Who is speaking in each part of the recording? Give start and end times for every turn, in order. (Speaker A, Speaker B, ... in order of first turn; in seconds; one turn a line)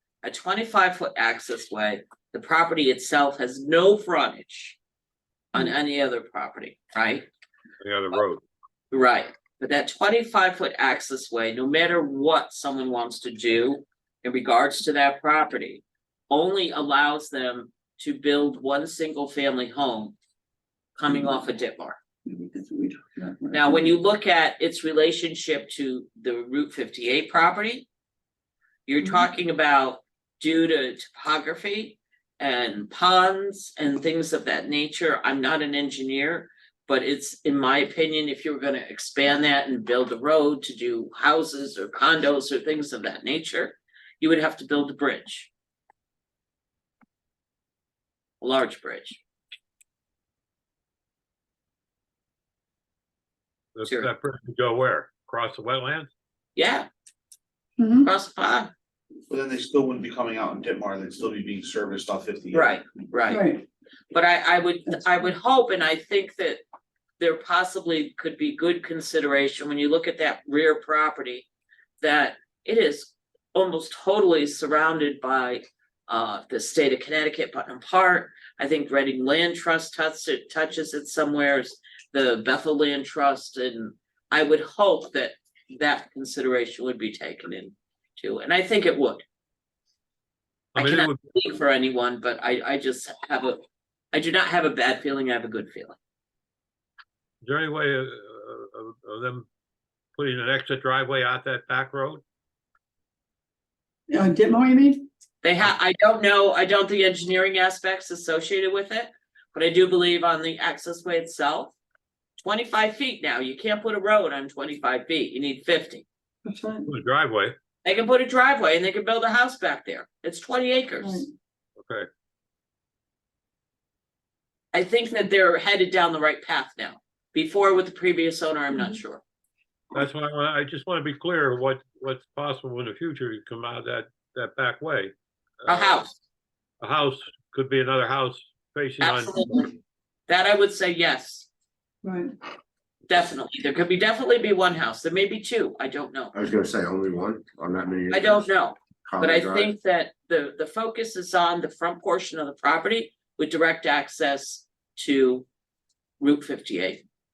Speaker A: 0.2-4.8
Speaker A: 5.5-7.3
Speaker B: 7.8-8.4
Speaker A: 8.9-20.2
Speaker A: 21.0-22.0
Speaker C: 22.3-23.8
Speaker A: 23.5-27.9
Speaker A: 28.9-45.5
Speaker A: 48.4-49.2
Speaker B: 53.8-56.1
Speaker A: 56.5-56.9
Speaker C: 57.8-58.0
Speaker A: 58.0-58.7
Speaker D: 59.3-62.7
Speaker A: 62.5-63.5
Speaker C: 63.3-63.6
Speaker A: 64.1-66.6
Speaker A: 67.2-71.5
Speaker A: 72.0-89.2
Speaker B: 90.8-91.2
Speaker A: 90.8-93.6
Speaker A: 94.1-96.0
Speaker B: 97.4-99.5
Speaker B: 100.2-102.2
Speaker C: 104.1-105.0
Speaker A: 105.4-111.8
Speaker A: 112.4-116.0
Speaker C: 116.5-116.8
Speaker B: 116.8-117.5
Speaker A: 117.8-121.2
Speaker B: 121.8-122.1
Speaker A: 124.7-129.2
Speaker B: 129.9-135.1
Speaker B: 135.6-136.1
Speaker A: 135.7-136.1
Speaker B: 136.8-139.5
Speaker A: 139.0-139.7
Speaker A: 140.3-141.5
Speaker A: 143.1-146.3
Speaker E: 146.3-148.5
Speaker A: 148.1-155.5
Speaker E: 149.0-149.7
Speaker A: 156.2-157.0